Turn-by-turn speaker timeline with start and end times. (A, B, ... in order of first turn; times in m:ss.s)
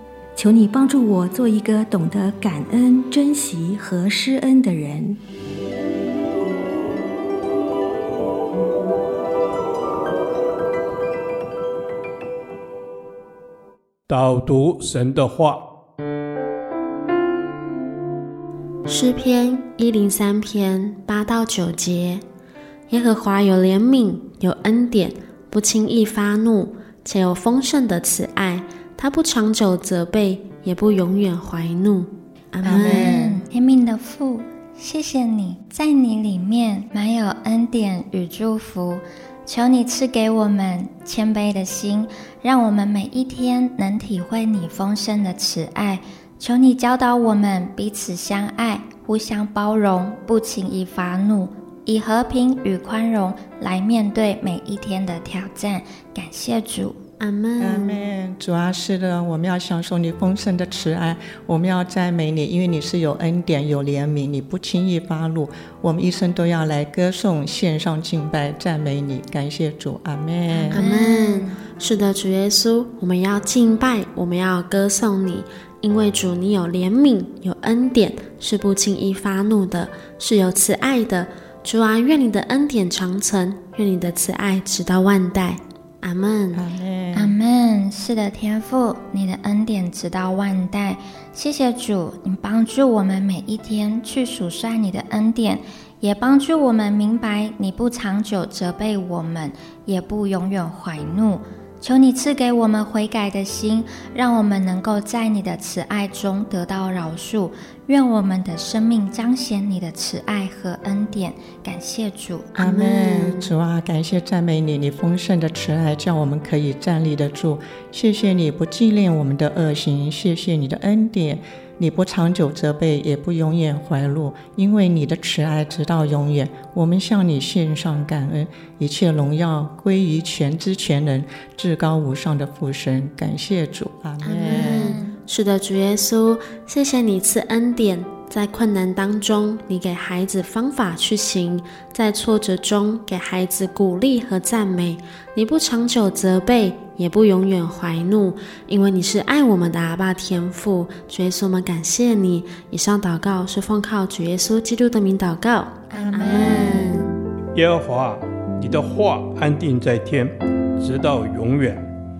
0:00.3-0:05.2 A
0:14.1-0:15.6 B
0:18.9-0:22.2 C
0:22.9-0:33.1 C
0:32.6-0:57.0 D
0:32.9-0:33.4 E
0:57.2-0:58.0 C
0:57.6-1:10.9 E
1:10.5-1:11.6 D
1:10.7-1:26.6 C
1:26.5-1:27.3 E
1:27.1-1:52.6 D
1:52.5-2:15.0 E
1:52.6-1:53.5 C
2:14.2-2:15.1 D
2:14.4-2:37.1 C
2:35.9-2:37.0 D
2:37.5-2:41.9 B